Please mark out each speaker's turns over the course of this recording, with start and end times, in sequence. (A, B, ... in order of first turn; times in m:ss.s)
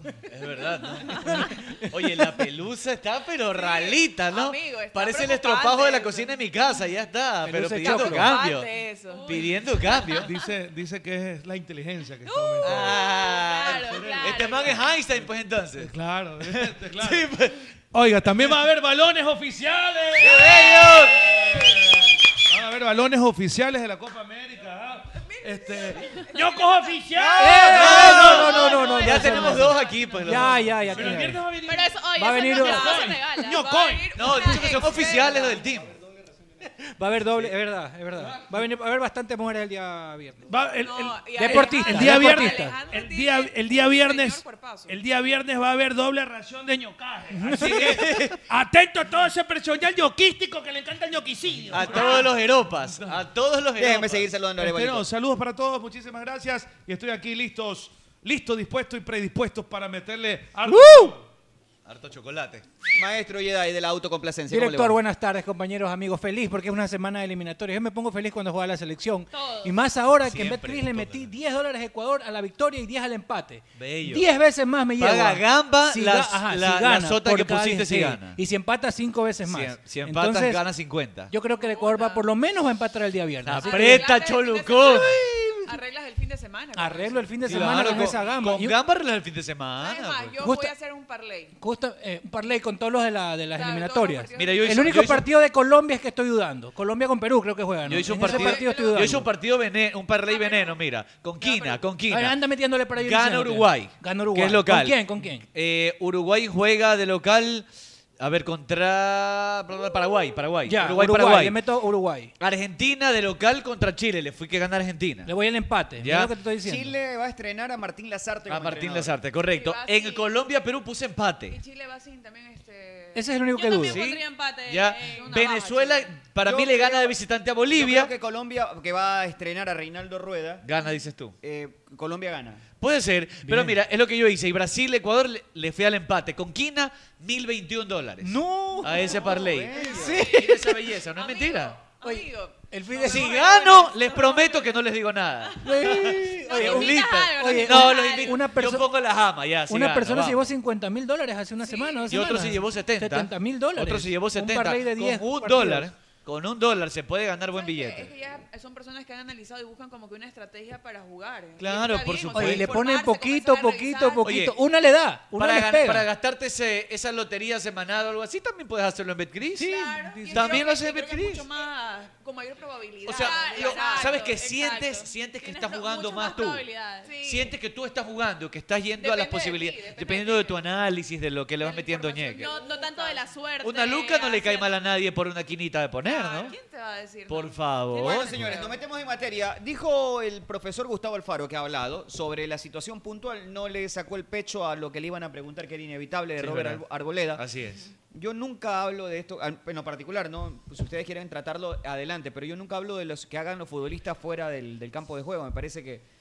0:00.3-0:08.7 A
0:01.1-0:01.4 B
0:01.2-0:01.9 C
0:03.5-0:06.4 B
0:07.4-0:08.3 C
0:07.8-0:09.5 B
0:09.1-0:10.3 D
0:09.3-0:10.3 A
0:10.2-0:13.0 E
0:12.3-0:14.9 D
0:12.6-0:17.6 A
0:12.7-0:13.6 B
0:13.7-0:14.8 E
0:15.8-0:17.3 E
0:17.9-0:29.0 E
0:20.2-0:21.2 A
0:25.2-0:26.9 B
0:27.2-0:31.4 C
0:27.6-0:31.0 A
0:28.6-0:30.2 B
0:30.8-0:32.0 E
0:31.7-0:34.7 D
0:31.7-0:35.6 B
0:32.2-0:33.0 C
0:32.6-0:34.1 E
0:34.2-0:35.9 A
0:37.0-0:40.5 C
0:38.2-0:38.5 E
0:40.5-0:53.2 E
0:40.8-0:45.0 B
0:41.4-0:42.8 C
0:47.3-0:48.0 C
0:47.5-0:48.4 A
0:51.7-0:54.3 A
0:53.8-0:55.0 F
0:54.6-1:01.3 E
1:00.7-1:01.2 C
1:01.9-1:02.6 A
1:02.9-1:05.0 F
1:04.5-1:20.6 C
1:09.3-1:09.7 D
1:10.2-1:11.3 A
1:13.8-1:14.3 A
1:15.0-1:18.4 A
1:19.5-1:21.3 A
1:21.3-1:24.1 C
1:21.6-1:22.2 B
1:23.5-1:25.2 A
1:23.6-1:28.4 B
1:25.0-1:25.7 C
1:26.8-1:28.8 C
1:27.4-1:30.4 A
1:29.8-1:31.6 B
1:30.4-1:30.7 C
1:31.6-1:39.3 C
1:33.5-1:34.9 B
1:34.4-1:35.3 A
1:37.9-1:42.4 A
1:38.2-1:39.3 B
1:40.3-1:40.7 D
1:41.4-1:41.8 B
1:42.1-1:45.4 C
1:43.0-1:47.6 A
1:48.2-1:51.6 A
1:50.7-1:52.3 C
1:52.4-1:55.3 A
1:55.3-1:56.9 C
1:56.0-1:56.3 A
1:56.6-1:59.2 F
1:58.5-2:01.6 A
1:59.5-2:00.4 B
2:01.5-2:03.3 B
2:03.1-2:04.1 C
2:03.6-2:05.4 D
2:03.9-2:08.1 A
2:05.0-2:06.2 B
2:06.4-2:07.2 F
2:07.7-2:10.6 F
2:10.6-2:11.4 A
2:11.4-2:12.6 F
2:12.8-2:21.8 A
2:13.4-2:13.8 C
2:18.2-2:19.2 C
2:18.8-2:20.3 F
2:19.8-2:20.7 C
2:21.1-2:24.3 B
2:22.0-2:23.4 C
2:23.0-2:30.5 A
2:25.6-2:28.9 C
2:26.5-2:28.3 D
2:27.4-2:28.4 B
2:29.7-2:35.9 C
2:31.6-2:32.0 B
2:32.1-2:38.1 A
2:37.5-2:44.3 B
2:41.6-2:42.7 A
2:42.3-2:46.1 C
2:44.2-2:44.6 A
2:45.3-2:51.5 A
2:49.6-2:50.6 C
2:49.6-2:54.4 B
2:53.1-2:56.7 A
2:53.1-2:57.1 D
2:57.0-2:57.5 B
2:57.2-3:02.5 A
2:59.0-3:00.6 B
3:01.6-3:03.3 B
3:02.3-3:04.7 D
3:03.6-3:06.6 A
3:06.0-3:08.8 B
3:07.3-3:08.6 A
3:08.0-3:17.4 F
3:16.4-3:17.9 A
3:18.1-3:26.0 F